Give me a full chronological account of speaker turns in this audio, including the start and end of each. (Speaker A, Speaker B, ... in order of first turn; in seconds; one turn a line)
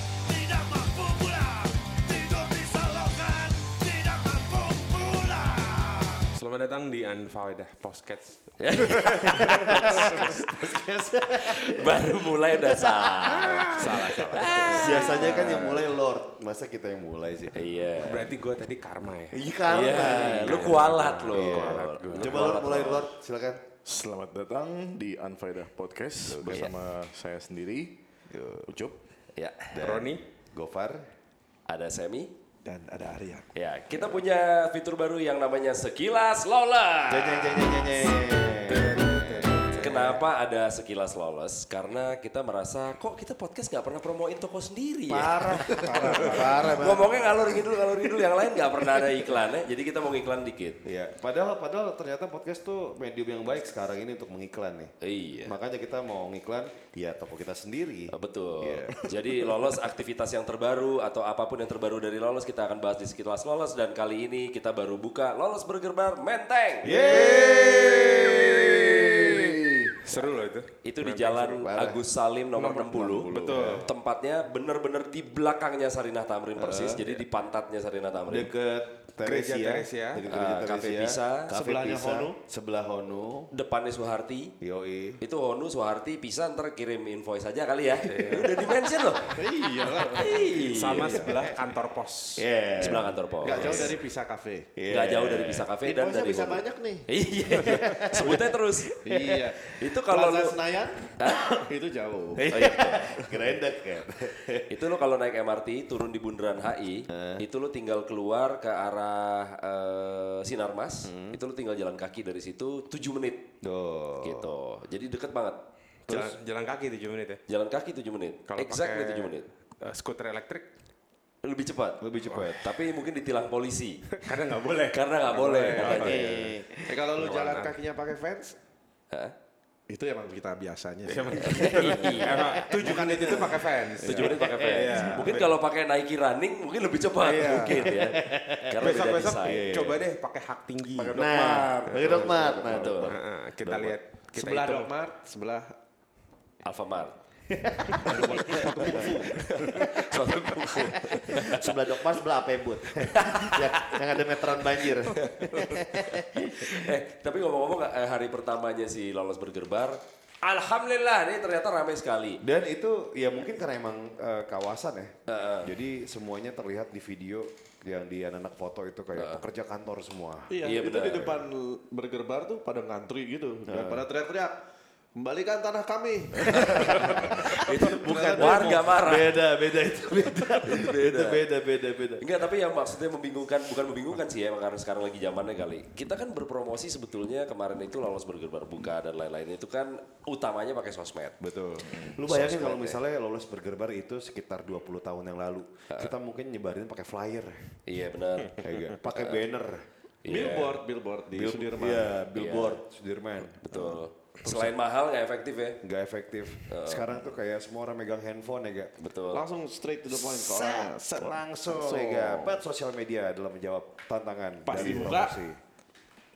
Speaker A: 6.3-10.3
Speaker B: 8.6-10.2
Speaker C: 9.2-17.6
Speaker B: 11.4-15.7
Speaker A: 13.7-15.8
Speaker B: 17.5-18.3
Speaker A: 18.0-22.6
Speaker C: 19.3-23.6
Speaker B: 19.7-23.1
Speaker D: 23.9-28.0
Speaker C: 26.3-26.7
Speaker C: 28.3-28.7
Speaker D: 28.7-29.0
Speaker B: 29.4-29.8
Speaker C: 29.7-31.1
Speaker A: 29.8-30.2
Speaker B: 31.7-32.3
Speaker E: 32.6-33.5
Speaker B: 33.5-38.1
Speaker C: 37.1-40.2
Speaker A: 39.1-39.6
Speaker B: 39.7-50.8
Speaker C: 45.1-47.7
Speaker E: 45.7-46.7
Speaker D: 45.8-46.5
Speaker C: 50.9-54.9
Speaker B: 55.0-55.6
Speaker C: 55.5-59.5
Speaker B: 58.1-66.9
Speaker C: 66.8-69.6
Speaker D: 66.8-70.0
Speaker A: 70.0-71.5
Speaker B: 70.8-78.5
Speaker C: 71.6-72.0
Speaker D: 72.6-73.8
Speaker A: 73.3-73.9
Speaker C: 76.6-77.1
Speaker C: 78.3-83.5
Speaker A: 79.2-80.2
Speaker B: 80.3-81.5
Speaker E: 81.5-82.4
Speaker B: 83.5-84.5
Speaker C: 84.6-85.2
Speaker B: 85.2-89.4
Speaker A: 88.1-88.7
Speaker E: 89.3-91.4
Speaker B: 90.0-91.3
Speaker A: 90.6-92.5
Speaker C: 92.4-93.9
Speaker B: 92.8-94.0
Speaker E: 93.4-94.7
Speaker C: 94.8-95.7
Speaker B: 94.9-99.0
Speaker E: 95.8-97.1
Speaker C: 97.5-99.7
Speaker E: 99.0-102.5
Speaker B: 99.6-100.6
Speaker B: 101.2-101.6
Speaker C: 101.2-101.7
Speaker C: 102.4-104.7
Speaker B: 102.5-103.2
Speaker B: 104.7-113.5
Speaker C: 107.1-107.4
Speaker C: 111.0-111.4
Speaker C: 113.6-114.5
Speaker B: 114.2-115.6
Speaker A: 116.1-117.4
Speaker B: 117.5-119.5
Speaker A: 118.5-120.7
Speaker B: 121.4-124.1
Speaker C: 122.0-122.8
Speaker A: 124.2-126.3
Speaker B: 124.9-126.5
Speaker E: 125.4-126.2
Speaker C: 125.8-127.0
Speaker E: 126.9-128.6
Speaker B: 127.2-127.8
Speaker E: 129.9-132.2
Speaker A: 131.1-135.5
Speaker B: 131.4-133.1
Speaker C: 132.2-135.3
Speaker E: 134.0-134.4
Speaker B: 134.0-139.8
Speaker A: 137.2-137.8
Speaker C: 137.3-140.1
Speaker A: 138.8-141.2
Speaker D: 140.9-143.0
Speaker C: 141.1-143.2
Speaker B: 142.7-143.1
Speaker A: 143.1-144.9
Speaker E: 144.3-145.8
Speaker B: 146.6-147.2
Speaker C: 147.5-149.1
Speaker E: 148.0-149.5
Speaker A: 148.4-148.9
Speaker B: 148.8-152.0
Speaker C: 149.8-156.9
Speaker B: 153.0-154.0
Speaker B: 154.8-162.4
Speaker C: 162.4-170.7
Speaker B: 165.3-165.7
Speaker B: 169.2-169.4
Speaker E: 170.5-174.6
Speaker B: 170.6-171.4
Speaker C: 173.7-174.1
Speaker E: 175.2-178.9
Speaker C: 176.4-177.4
Speaker B: 177.3-179.4
Speaker C: 177.9-182.2
Speaker B: 180.6-181.4
Speaker B: 182.2-191.4
Speaker C: 191.4-197.7
Speaker B: 192.2-193.0
Speaker B: 197.9-199.4
Speaker C: 198.6-199.9
Speaker B: 200.2-200.8
Speaker E: 200.3-202.2
Speaker C: 201.3-204.7
Speaker B: 202.3-202.8
Speaker B: 203.6-205.8
Speaker C: 205.8-208.9
Speaker B: 206.7-207.3
Speaker B: 209.0-209.4
Speaker E: 209.3-212.6
Speaker C: 210.1-215.6
Speaker E: 214.7-215.4
Speaker D: 214.7-215.1